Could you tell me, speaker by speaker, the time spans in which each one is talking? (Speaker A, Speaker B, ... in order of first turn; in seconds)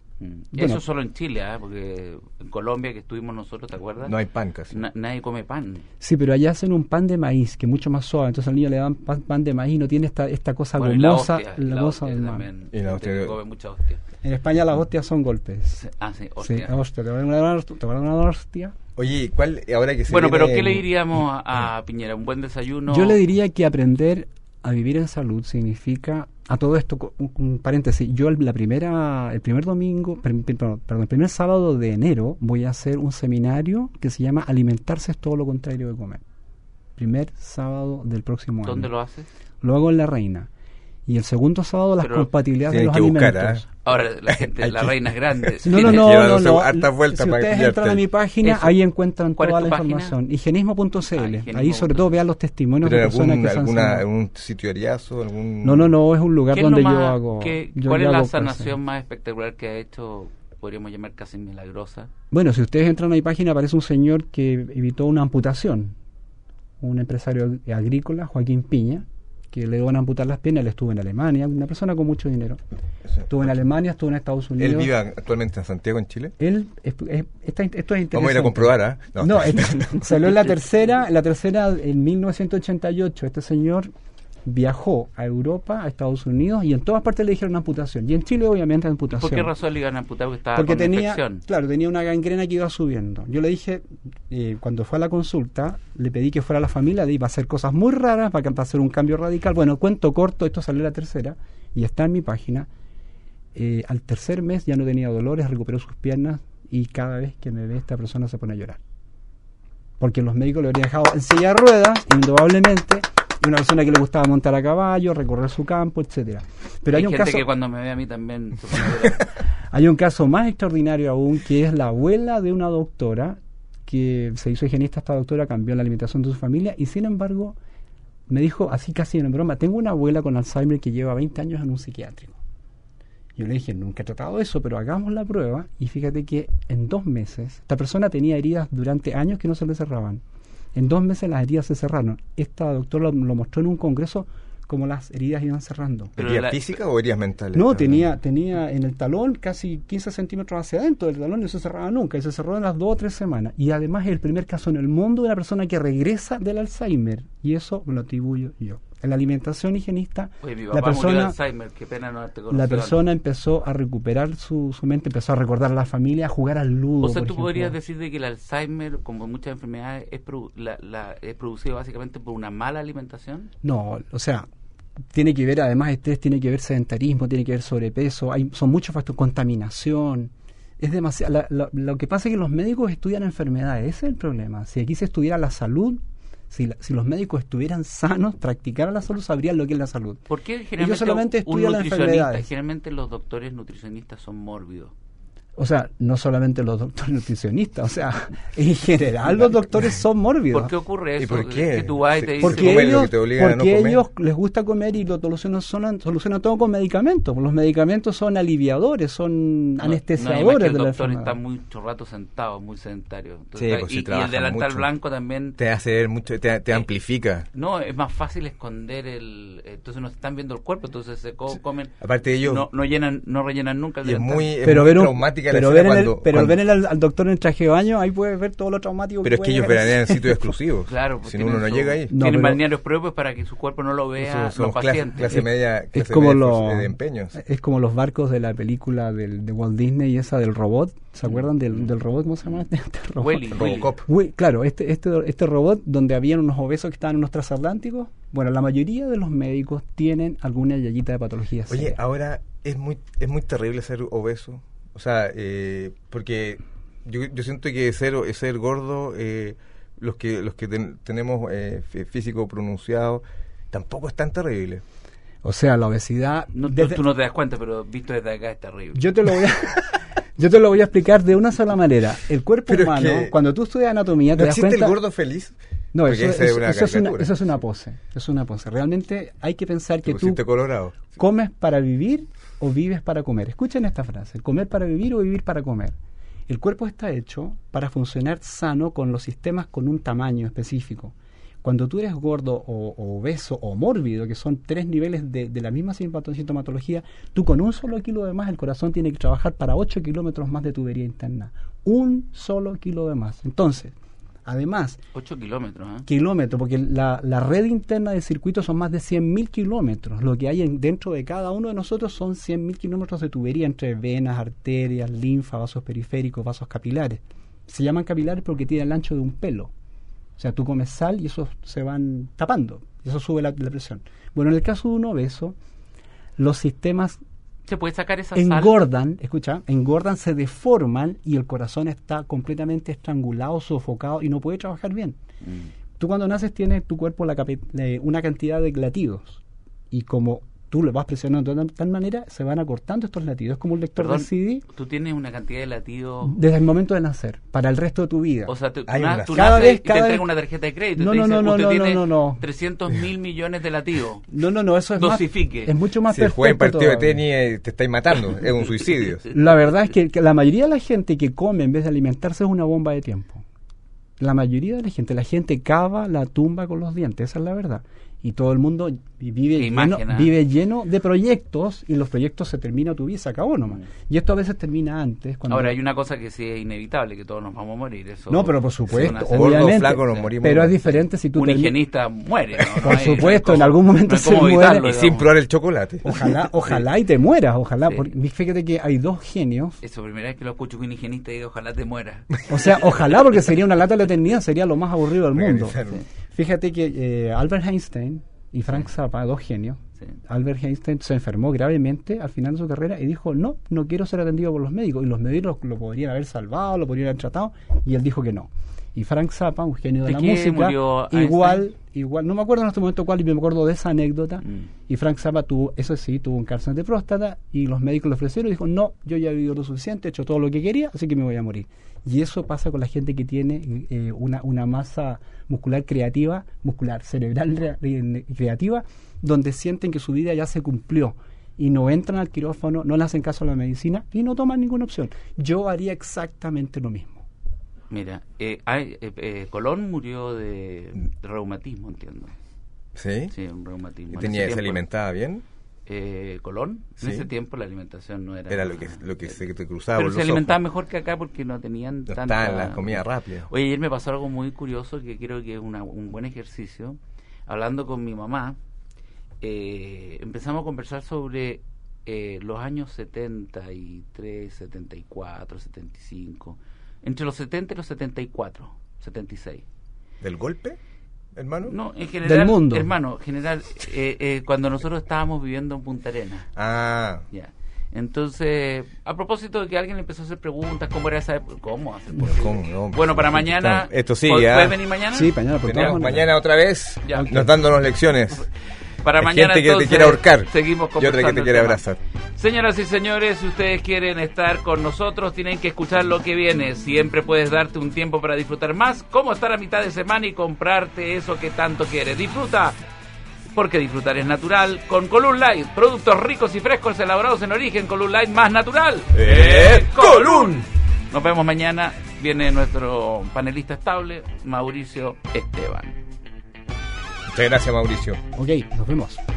Speaker A: 0.2-4.2, 4.7-5.8, 10.8-14.0, 15.8-16.7, 20.1-23.2, 38.6-39.3, 42.0-42.3, 43.8-46.1, 48.4-48.8, 49.4-50.1, 51.1-52.2, 56.5-62.1, 89.1-91.4, 116.9-119.3, 146.2-146.6, 160.4-163.1, 167.0-173.5, 190.3-194.9, 200.5-202.9, 209.8-215.6, 217.5-224.5, 230.9-235.4, 241.3-241.9, 243.2-243.9, 266.5-269.1, 305.1-306.1, 327.6-328.8, 335.4-335.7, 344.0-346.4, 348.5-354.2, 355.0-355.7, 369.6-370.3, 375.5-380.3, 381.3-385.3, 389.8-393.1, 410.0-411.7, 437.9-442.3, 443.3-444.8, 445.9-449.4, 449.9-458.6, 459.4-469.6, 471.6-476.5, 477.3-486.1, 489.0-491.8, 492.4-502.8, 503.5-516.0
Speaker B: 0.5-0.8, 6.0-12.5, 14.2-15.8, 16.4-18.8, 22.9-36.2, 37.0-38.9, 39.6-40.5, 41.0-43.7, 45.6-54.0, 55.6-58.7, 62.3-66.0, 66.8-72.6, 73.3-74.9, 76.4-83.9, 84.4-89.5, 90.5-102.7, 103.5-108.8, 110.0-117.5, 119.7-127.5, 128.3-132.4, 133.3-140.2, 140.7-146.1, 147.5-161.3, 162.5-167.8, 173.6-174.4, 175.1-190.2, 190.8-192.5, 195.6-200.7, 202.4-211.3, 224.6-230.5, 232.1-232.6, 235.3-252.0, 265.4-267.0, 268.9-275.0, 275.9-280.4, 281.0-285.9, 286.5-303.9, 304.4-305.0, 306.1-319.7, 320.4-325.6, 326.4-327.2, 328.3-335.2, 336.0-344.6, 346.2-348.5, 349.3-350.2, 351.0-352.4, 354.3-357.2, 359.3-363.4, 364.2-375.8, 378.3-381.8, 382.8-384.8, 386.0-389.8, 392.5-395.8, 396.3-437.2, 472.2-472.9, 485.1-486.3, 487.1-487.7, 518.3-519.2
Speaker C: 4.0-4.8, 12.7-13.3, 18.9-20.9, 42.7-43.6, 44.3-48.0, 52.8-55.9, 74.6-76.3, 78.1-80.2, 146.2-148.0, 201.2-204.0, 213.6-214.9, 215.6-217.5, 222.0-222.7, 224.0-226.6, 229.2-232.1, 234.2-237.4, 243.5-244.1, 251.7-264.8, 272.7-273.3, 274.4-277.4, 280.0-281.1, 348.9-349.6, 356.1-359.3, 378.9-381.0, 384.8-386.5, 395.3-396.0, 442.9-443.3, 444.1-445.4, 447.0-447.3, 448.5-450.6, 452.1-453.5, 470.2-470.8, 471.4-471.7, 476.6-477.2, 482.2-484.8, 485.6-488.5, 489.2-492.0, 509.1-510.6, 517.3-518.2